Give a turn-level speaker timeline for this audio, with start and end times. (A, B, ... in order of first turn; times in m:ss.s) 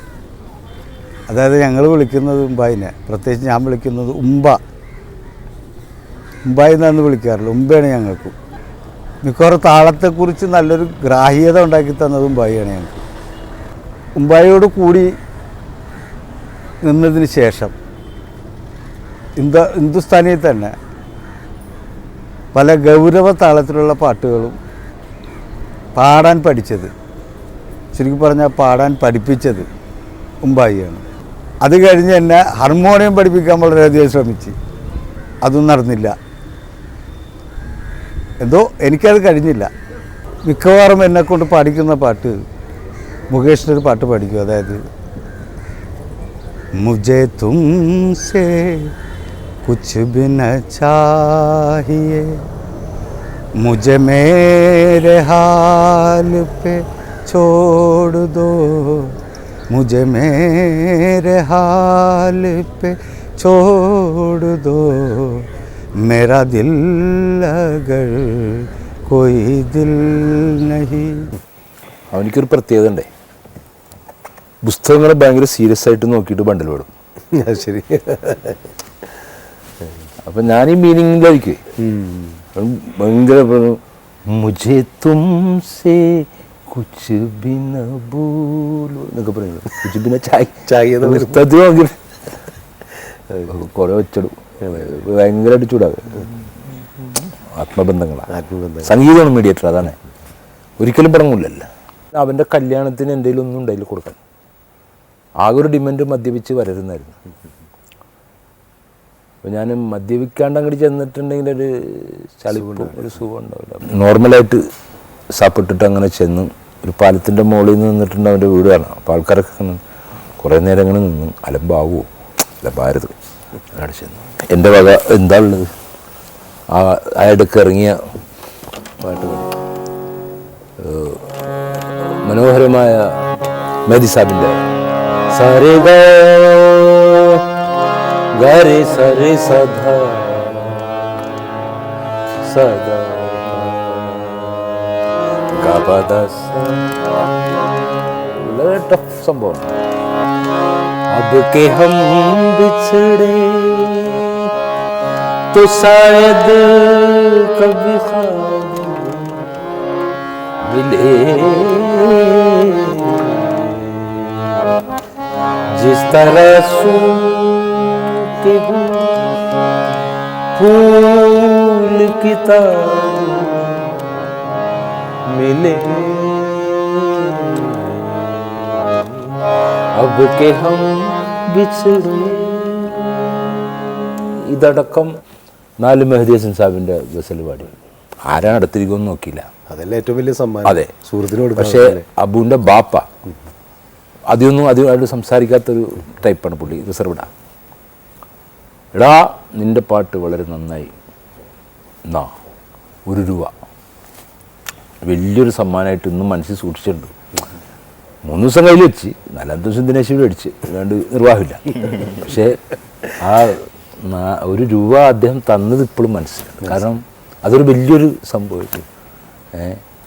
0:01.3-0:04.6 A
0:06.4-0:08.3 A
0:09.2-0:13.0 A
0:14.2-0:15.1 A
0:16.8-0:17.7 A
0:19.4-0:20.7 A
0:22.5-0:24.6 A
0:26.0-0:26.9 A
0:27.9-0:29.7 A
0:30.4-0:31.0 A
0:31.6-0:34.6 A
0:35.4-0:36.1 A
0:38.4-0:39.7 A
0:40.4-0:42.4 A
0:43.3-0:44.8 A
0:46.8-0:48.9 A
0:49.6-0:52.4 A
0:53.6-0:59.2 A
0:59.7-1:05.5 A
1:06.0-1:11.3 A
1:12.1-1:13.1 B
1:14.6-1:16.9 B
1:17.3-1:18.6 C
1:20.2-1:21.6 B
1:21.8-1:22.4 C
1:22.5-1:32.0 B
1:30.6-1:31.5 C
1:33.5-1:36.3 B
1:37.5-1:38.3 B
1:38.3-1:39.0 C
1:38.8-1:40.0 B
1:40.8-1:44.2 B
1:45.4-1:47.1 B
1:49.4-1:54.6 B
1:52.5-1:53.2 C
1:55.4-1:59.8 B
2:00.4-2:02.1 B
2:02.6-2:03.1 B
2:03.7-2:05.7 B
2:06.7-2:08.0 B
2:09.0-2:09.5 B
2:10.8-2:13.2 B
2:13.8-2:14.6 B
2:15.3-2:17.4 B
2:18.3-2:21.1 B
2:22.4-2:24.8 B
2:25.5-2:26.9 B
2:28.3-2:29.7 B
2:31.1-2:34.5 B
2:35.5-2:39.4 B
2:40.6-2:44.5 B
2:45.7-2:49.3 B
2:50.6-2:54.1 B
2:55.3-2:59.1 B
2:59.9-3:05.1 B
3:05.8-3:07.7 B
3:08.2-3:09.5 B
3:09.7-3:12.0 C
3:11.6-3:13.0 B
3:14.3-3:17.3 B
3:18.9-3:20.9 B
3:22.1-3:22.3 B
3:23.0-3:23.5 B
3:25.0-3:27.1 B
3:28.2-3:32.6 B
3:33.2-3:38.8 B
3:39.5-3:39.8 B